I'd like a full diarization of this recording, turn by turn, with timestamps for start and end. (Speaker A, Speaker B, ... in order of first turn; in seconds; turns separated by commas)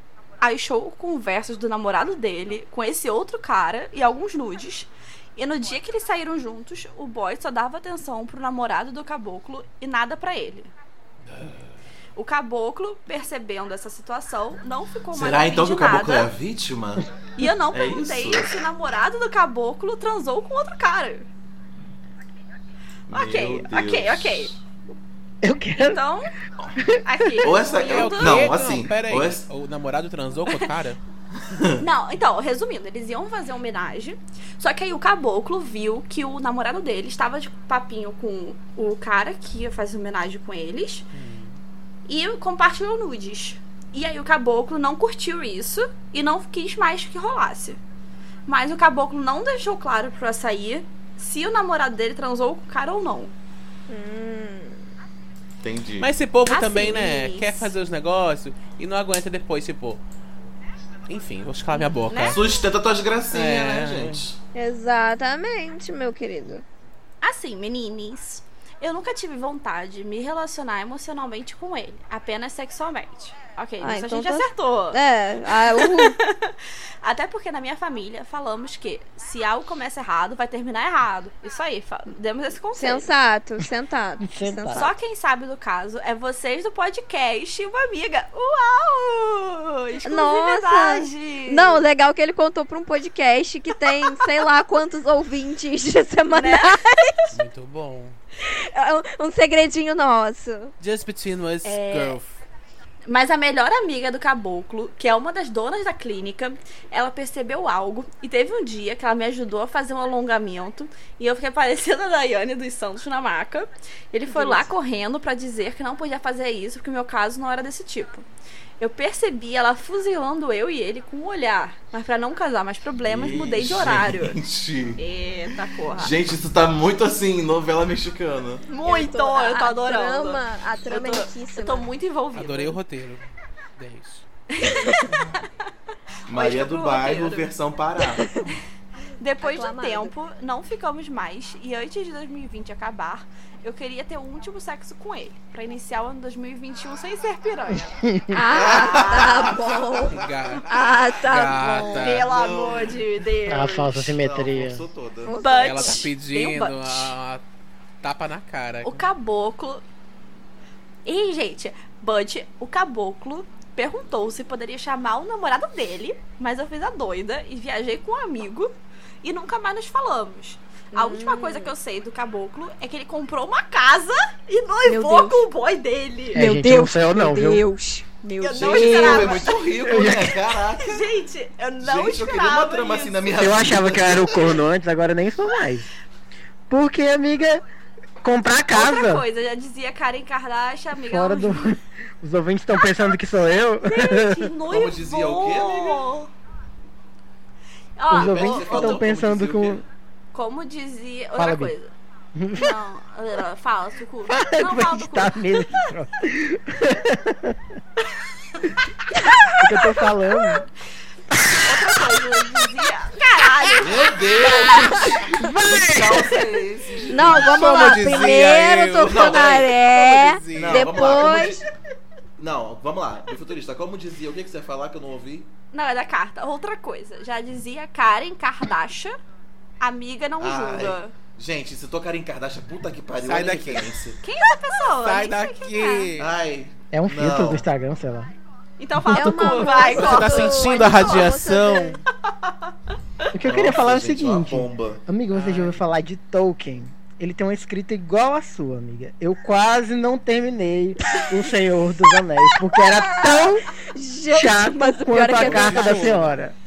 Speaker A: 0.4-10.7, Speaker A: 12.2-16.3, Speaker B: 15.1-17.1, Speaker A: 17.4-21.3, Speaker B: 17.7-18.6, Speaker B: 23.1-24.6, Speaker A: 23.1-24.6, Speaker C: 25.4-26.0, Speaker A: 25.8-26.3, Speaker C: 26.8-27.3, Speaker A: 27.0-28.4, Speaker B: 27.4-29.5, Speaker D: 27.8-31.0, Speaker B: 31.4-31.8, Speaker A: 31.8-41.1, Speaker D: 41.1-41.6, Speaker A: 42.1-47.8, Speaker A: 48.5-53.3, Speaker E: 53.9-54.8, Speaker B: 55.6-56.1, Speaker D: 56.0-60.0, Speaker A: 56.5-57.7, Speaker D: 61.1-62.4, Speaker A: 62.0-62.4, Speaker B: 62.3-64.4, Speaker D: 63.3-64.2, Speaker E: 64.5-66.6, Speaker A: 67.2-83.1, Speaker E: 73.8-76.2, Speaker E: 82.8-84.9, Speaker C: 84.2-84.9, Speaker A: 84.7-91.8, Speaker E: 90.0-97.3, Speaker A: 96.3-96.8, Speaker D: 97.3-98.2, Speaker E: 98.4-100.7, Speaker D: 100.8-102.4, Speaker A: 101.6-102.2, Speaker A: 103.1-118.2, Speaker E: 114.3-114.7, Speaker A: 118.8-124.4, Speaker B: 123.1-125.0, Speaker A: 125.0-126.1, Speaker B: 126.0-128.6, Speaker A: 128.7-132.8, Speaker E: 128.8-131.9, Speaker D: 132.3-133.2, Speaker D: 133.8-134.2, Speaker A: 134.5-135.5, Speaker B: 136.3-138.4, Speaker A: 136.3-137.5, Speaker A: 139.2-147.9, Speaker E: 139.4-140.1, Speaker C: 147.9-148.5, Speaker E: 148.3-152.2, Speaker B: 148.5-150.6, Speaker A: 148.6-149.6, Speaker D: 150.1-152.3, Speaker A: 152.0-154.0, Speaker B: 152.1-153.0, Speaker C: 153.5-154.8, Speaker B: 153.7-155.4, Speaker E: 155.2-156.1, Speaker A: 155.3-157.1, Speaker D: 155.6-157.4, Speaker D: 158.0-159.1, Speaker A: 158.8-159.8, Speaker A: 161.1-176.5, Speaker E: 170.9-171.7, Speaker E: 174.8-175.4, Speaker C: 176.3-177.7, Speaker E: 176.3-179.4, Speaker A: 178.4-179.6, Speaker B: 178.6-181.1, Speaker C: 179.8-180.4, Speaker A: 180.8-183.4, Speaker B: 181.8-184.6, Speaker C: 183.3-185.9, Speaker C: 186.7-187.6, Speaker C: 188.2-189.3, Speaker A: 188.7-191.7, Speaker C: 191.0-194.5, Speaker A: 193.8-196.3, Speaker B: 194.7-196.2, Speaker A: 198.0-199.0, Speaker C: 198.1-199.8, Speaker B: 198.1-199.8, Speaker A: 200.3-201.9, Speaker C: 201.4-201.7, Speaker C: 202.3-202.8, Speaker A: 202.5-205.9, Speaker C: 204.3-207.6, Speaker C: 209.6-210.7, Speaker C: 211.3-211.9, Speaker A: 211.6-215.1, Speaker B: 213.8-217.5, Speaker C: 215.3-216.5, Speaker E: 217.1-221.6, Speaker D: 217.3-221.1, Speaker B: 219.0-219.7, Speaker B: 220.5-221.7, Speaker B: 222.4-225.5, Speaker A: 225.7-229.2, Speaker A: 229.8-231.1, Speaker B: 230.4-234.2, Speaker D: 233.2-233.9, Speaker A: 234.2-236.1, Speaker D: 234.6-236.3, Speaker B: 236.2-237.7, Speaker C: 236.9-238.3, Speaker A: 238.8-241.3, Speaker E: 239.1-242.0, Speaker D: 239.3-242.0, Speaker A: 242.3-242.7, Speaker C: 243.3-253.7, Speaker B: 243.4-245.0, Speaker D: 245.3-245.8, Speaker E: 253.0-256.1, Speaker C: 254.3-256.6, Speaker D: 255.3-256.4